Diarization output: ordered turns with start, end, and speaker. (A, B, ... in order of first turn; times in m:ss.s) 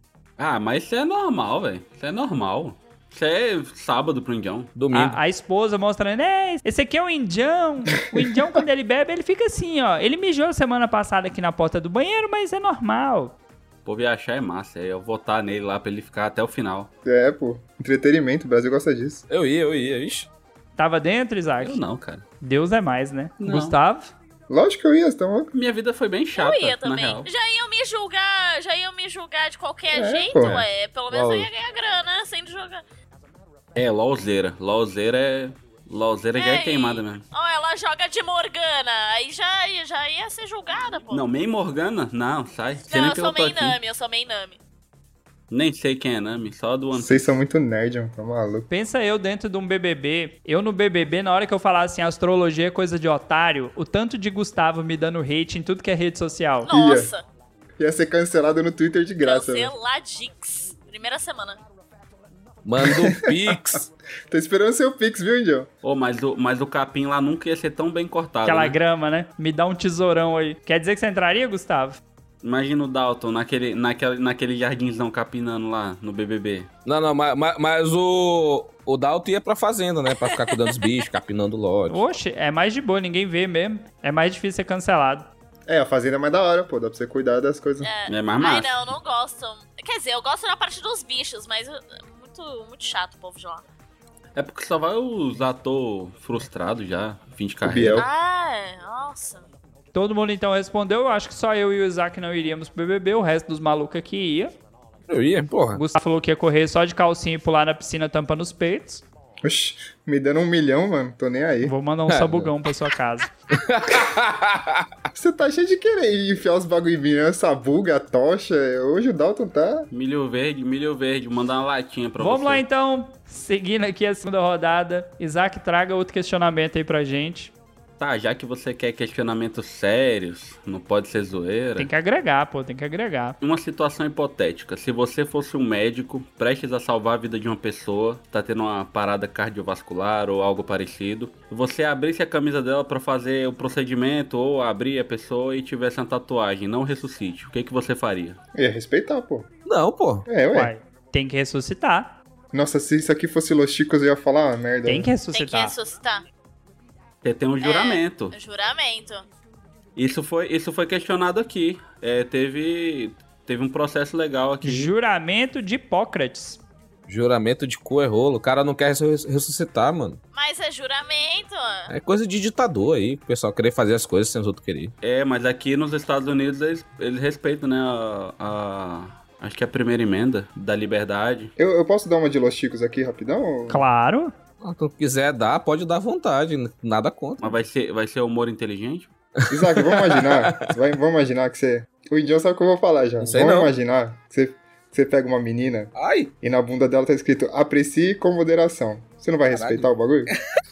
0:00.4-0:04.7 A
0:04.7-0:05.2 B
0:04.9-0:13.3 C
0:13.8-0:16.9 A
0:17.0-0:19.2 D
0:19.3-0:20.3 B
0:20.8-0:21.8 C
0:21.6-0:22.2 A
0:22.4-0:24.1 C
0:23.4-0:23.7 A
0:24.5-0:25.5 D
0:25.5-0:27.3 A
0:26.3-0:32.8 E
0:29.9-0:30.6 D
0:31.1-0:31.5 B
0:33.7-0:37.2 A
0:36.4-0:41.2 E
0:41.1-0:43.8 A
0:42.9-0:44.6 E
0:45.5-0:47.3 A
0:46.9-0:48.7 D
0:48.7-0:56.7 C
0:56.6-0:57.2 E
0:56.7-0:57.1 D
0:57.8-0:59.7 D
0:59.2-1:01.6 E
1:02.6-1:03.9 B
1:02.8-1:03.6 D
1:04.3-1:05.7 D
1:05.8-1:08.8 A
1:08.4-1:12.0 C
1:12.4-1:16.7 A
1:16.8-1:22.1 B
1:21.9-1:25.3 C
1:25.7-1:27.9 D
1:27.8-1:33.6 E
1:28.1-1:28.8 A
1:34.3-1:38.0 A
1:37.6-1:38.0 D
1:38.0-1:39.5 E
1:39.9-1:44.5 C
1:45.1-1:45.8 B
1:45.7-1:49.0 C
1:49.4-1:51.7 D
1:51.6-1:53.3 C
1:52.1-1:52.5 B
1:53.5-1:54.9 B
1:55.1-1:59.9 D
1:59.9-2:02.6 A
2:02.2-2:07.5 C
2:08.0-2:11.9 A
2:11.8-2:13.4 C
2:13.4-2:28.4 A
2:28.5-2:29.5 D
2:29.6-2:30.2 B
2:30.3-2:30.7 D
2:30.5-2:32.2 C
2:32.5-2:35.1 D
2:34.8-2:35.8 C
2:35.3-2:36.2 E
2:37.2-2:38.3 A
2:37.6-2:39.2 E
2:40.0-2:44.9 A
2:44.6-2:46.6 C
2:47.1-2:50.2 B
2:50.3-2:51.9 E
2:51.9-2:54.9 B
2:55.0-3:01.5 A
3:01.6-3:03.8 D
3:03.7-3:04.3 C
3:04.6-3:07.6 B
3:07.4-3:09.1 A
3:09.5-3:20.3 D
3:09.5-3:10.5 B
3:13.2-3:13.7 B
3:15.9-3:16.3 B
3:19.5-3:19.9 B